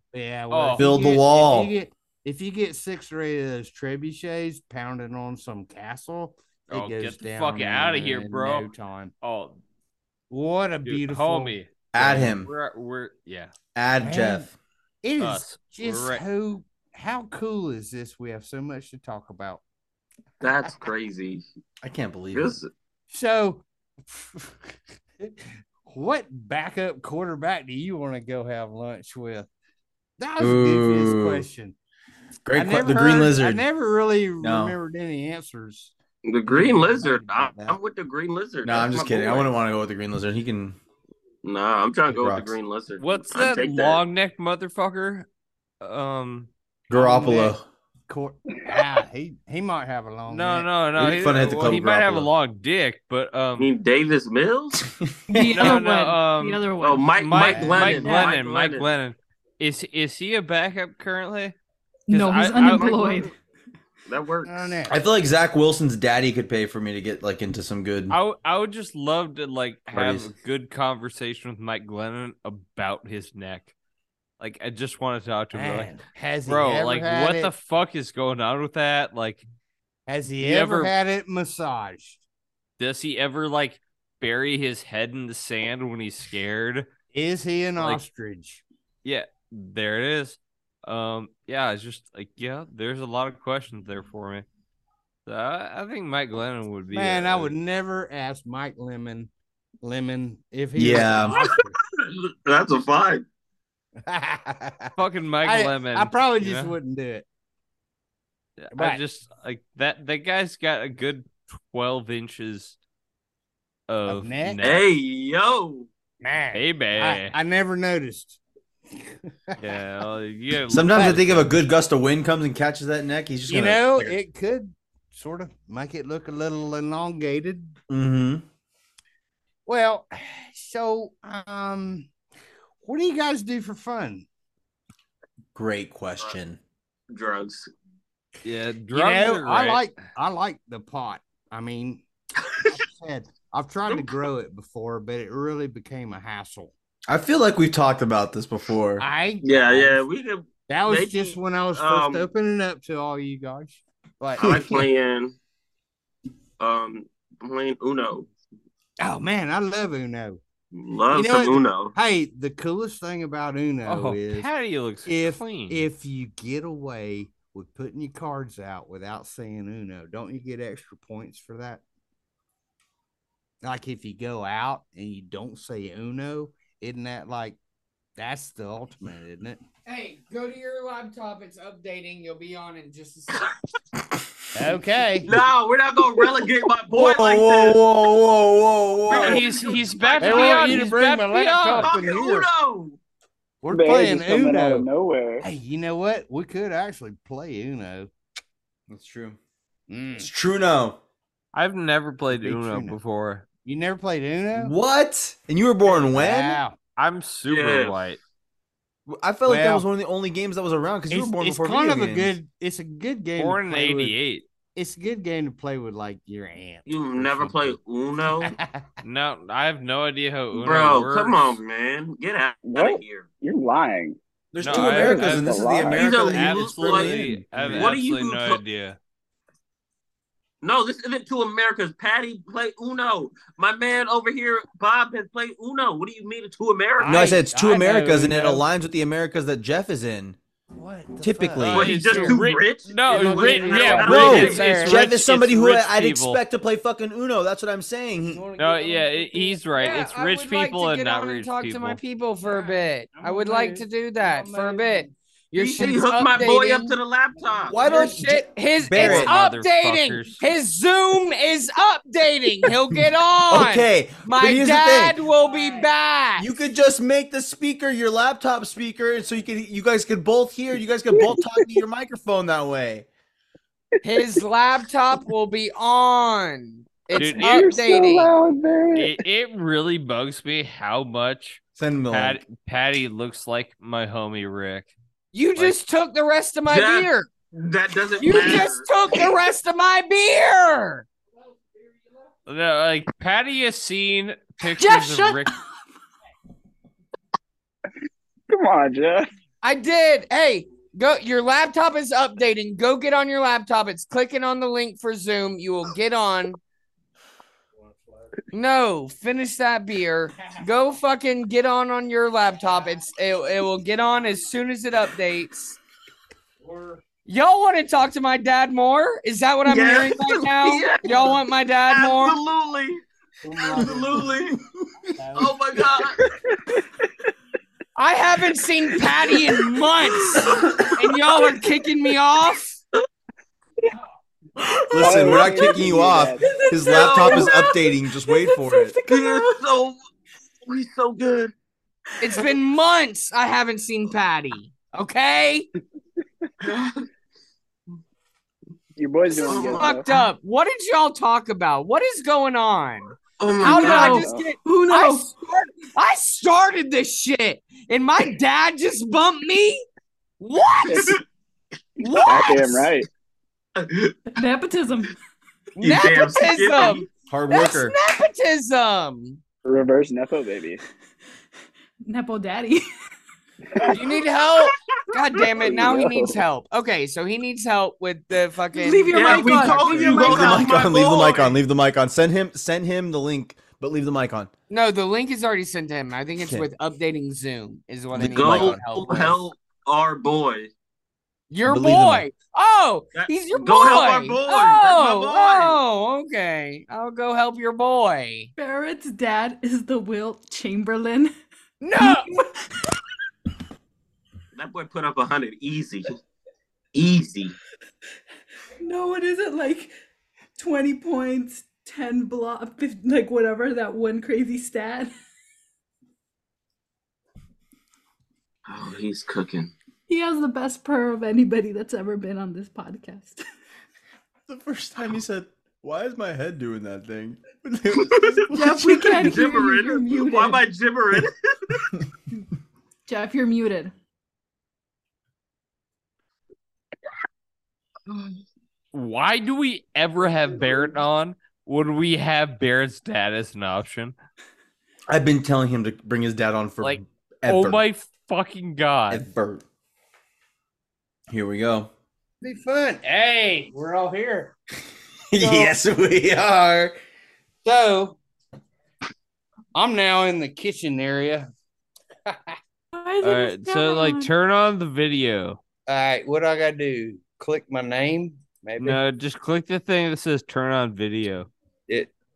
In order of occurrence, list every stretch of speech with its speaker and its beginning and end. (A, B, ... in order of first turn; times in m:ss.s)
0:00.1-0:09.1 A
0:00.5-0:00.9 B
0:00.8-0:01.7 C
0:06.7-0:08.7 B
0:09.2-0:09.6 B
0:10.3-0:12.0 A
0:10.8-0:13.5 B
0:11.9-0:12.5 C
0:13.7-0:14.5 C
0:14.0-0:14.5 A
0:15.0-0:19.6 A
0:15.2-0:16.2 B
0:20.4-0:21.4 D
0:21.8-0:22.6 C
0:22.3-0:22.7 D
0:23.1-0:29.5 A
0:30.2-0:31.8 A
0:30.4-0:31.5 C
0:32.4-0:33.6 C
0:32.5-0:35.9 A
0:34.4-0:34.8 C
0:36.2-0:39.5 D
0:36.5-0:37.7 A
0:38.6-0:40.8 C
0:41.4-0:44.0 D
0:42.1-0:42.6 C
0:43.0-0:45.3 B
0:45.8-0:46.5 B
0:46.9-0:47.6 C
0:46.9-0:47.6 A
0:48.1-0:51.5 A
0:50.3-0:53.7 B
0:51.0-0:52.3 C
0:53.6-0:54.8 D
0:55.0-0:55.8 C
0:55.3-0:58.4 E
0:55.5-0:56.6 B
0:56.8-0:58.9 D
0:57.2-1:01.5 B
0:57.5-0:58.0 A
1:02.1-1:03.3 E
1:02.1-1:03.0 B
1:02.6-1:03.2 D
1:04.1-1:04.8 D
1:04.4-1:05.0 A
1:04.9-1:08.2 C
1:08.1-1:13.7 B
1:09.9-1:10.3 C
1:14.4-1:15.9 B
1:15.5-1:17.5 A
1:16.4-1:19.4 B
1:20.1-1:22.2 A
1:20.4-1:20.9 B
1:22.8-1:26.9 B
1:27.1-1:28.6 A
1:29.0-1:34.4 B
1:35.2-1:37.5 B
1:36.9-1:39.3 A
1:39.8-1:41.8 A
1:40.7-1:41.4 C
1:42.0-1:43.2 D
1:44.0-1:47.2 A
1:45.0-1:46.7 B
1:48.6-1:52.8 B
1:48.7-1:49.0 A
1:53.9-1:54.9 B
1:54.1-1:54.6 A
1:54.6-1:55.9 D
1:56.2-1:58.4 A
1:56.5-1:57.3 B
1:59.0-1:59.6 A
1:59.6-2:01.5 B
2:00.7-2:04.2 C
2:01.0-2:01.2 A
2:03.5-2:07.7 A
2:07.9-2:08.4 C
2:09.6-2:12.1 A
2:12.8-2:14.2 A
2:15.5-2:16.6 C
2:17.1-2:17.7 D
2:18.4-2:19.8 B
2:18.9-2:22.0 A
2:22.4-2:22.7 D
2:22.6-2:26.7 A
2:23.9-2:24.1 D
2:27.1-2:29.0 C
2:29.0-2:30.0 A
2:29.4-2:32.3 D
2:30.7-2:34.8 A
2:34.4-2:35.4 D
2:36.6-2:38.3 D
2:39.0-2:40.4 A
2:40.7-2:41.9 D
2:41.1-2:44.5 A
2:43.8-2:45.8 B
2:45.0-2:51.8 A
2:53.6-2:57.6 A
2:58.2-2:59.6 A
2:59.8-3:03.5 F
3:04.5-3:05.3 A
3:05.2-3:07.8 D
3:06.9-3:09.4 C
3:09.1-3:10.9 D
3:09.1-3:11.9 B
3:10.2-3:12.5 A
3:11.8-3:13.0 D
3:13.6-3:14.9 A
3:13.7-3:15.4 G
3:15.4-3:18.1 A
3:18.9-3:19.4 C
3:19.9-3:20.3 A
3:20.2-3:21.0 C
3:21.5-3:23.4 B
3:22.3-3:23.0 A
3:23.6-3:24.7 A
3:24.5-3:26.6 C
3:25.8-3:26.8 A
3:27.0-3:28.2 B
3:27.5-3:28.0 D
3:29.1-3:32.3 C
3:29.4-3:29.8 A
3:31.1-3:34.2 A
3:33.4-3:34.4 B
3:34.7-3:37.8 A
3:36.8-3:38.5 D
3:38.4-3:38.8 A
3:39.0-3:41.6 B
3:40.5-3:43.3 D
3:42.6-3:44.2 G
3:44.5-3:47.9 C
3:44.6-3:45.5 B
3:44.7-3:46.1 G
3:45.9-3:48.6 D
3:46.2-3:49.0 B
3:47.6-3:47.8 A
3:50.6-3:57.3 D
3:57.0-3:58.6 A
3:57.0-4:00.4 C
4:00.7-4:02.4 A
4:01.2-4:02.0 C
4:01.7-4:04.7 D
4:01.7-4:06.4 B
4:03.0-4:04.9 A
4:04.0-4:08.4 C
4:08.3-4:09.6 A
4:08.6-4:12.0 B
4:09.7-4:17.0 F
4:12.4-4:15.1 A
4:15.5-4:17.8 D
4:17.4-4:18.1 A
4:17.7-4:19.3 C
4:17.8-4:26.5 F
4:19.0-4:20.4 B
4:23.5-4:25.2 C
4:25.5-4:25.8 A
4:26.4-4:33.1 C
4:31.1-4:31.6 G
4:34.0-4:38.3 F
4:37.1-4:37.5 B
4:37.1-4:39.2 G
4:38.9-4:44.9 B
4:41.8-4:42.4 C
4:45.3-4:47.3 F
4:46.7-4:49.2 D
4:48.2-4:51.0 F
4:52.4-4:55.5 B
4:54.7-4:55.7 E
4:58.5-4:59.3 G
4:59.6-5:06.6 F
5:07.8-5:08.3 A
5:08.5-5:15.8 F
5:16.6-5:17.0 A
5:17.2-5:22.4 F
5:19.6-5:23.0 D
5:23.4-5:24.3 A
5:23.7-5:24.5 D
5:23.7-5:25.2 C
5:25.2-5:25.6 A
5:25.4-5:26.2 D
5:28.0-5:32.8 F
5:34.6-5:35.7 E
5:34.9-5:39.0 C
5:35.0-5:36.4 G
5:36.4-5:39.6 E
5:36.9-5:37.5 D
5:39.0-5:40.0 D
5:40.6-5:41.5 D
5:42.2-5:45.7 F
5:46.6-5:47.0 D
5:49.0-5:50.1 G
5:49.4-5:59.8 F
5:49.4-5:50.3 D
5:53.4-5:54.3 D
5:53.6-5:55.4 E
5:54.0-5:54.5 G
6:00.4-6:01.2 F
6:00.8-6:01.2 G
6:02.0-6:02.9 F
6:02.1-6:03.1 G
6:03.8-6:04.2 D
6:04.3-6:05.1 E
6:05.8-6:09.4 F
6:05.8-6:07.1 D
6:07.3-6:07.9 C
6:09.6-6:10.8 G
6:12.0-6:12.8 E
6:13.7-6:14.0 G
6:13.9-6:20.3 F
6:15.6-6:16.4 G
6:18.7-6:20.8 E
6:19.1-6:21.6 D
6:20.1-6:24.5 C
6:24.7-6:29.4 F
6:26.4-6:26.7 C
6:28.1-6:28.8 C
6:28.2-6:30.7 D
6:31.5-6:38.5 F
6:31.6-6:32.2 C
6:33.1-6:35.8 D
6:38.6-6:41.3 E
6:41.8-6:42.3 F
6:42.0-6:42.5 E
6:44.5-6:46.1 D
6:46.9-6:47.5 D
6:48.8-6:49.9 E
6:50.6-6:55.1 E
6:58.7-6:59.7 D
7:00.1-7:03.4 E
7:04.5-7:08.8 C
7:07.9-7:11.9 D
7:08.5-7:10.6 E
7:13.1-7:13.9 E
7:18.9-7:24.2 B
7:25.1-7:27.8 C
7:26.8-7:29.3 B
7:29.1-7:29.6 C
7:31.3-7:31.9 C
7:32.4-7:34.5 A
7:35.3-7:37.0 C
7:35.4-7:35.7 A
7:37.6-7:38.2 A
7:39.7-7:41.5 A
7:42.3-7:42.6 A
7:42.9-7:44.3 E
7:43.2-7:45.6 B
7:45.9-7:49.0 A
7:48.8-7:51.5 B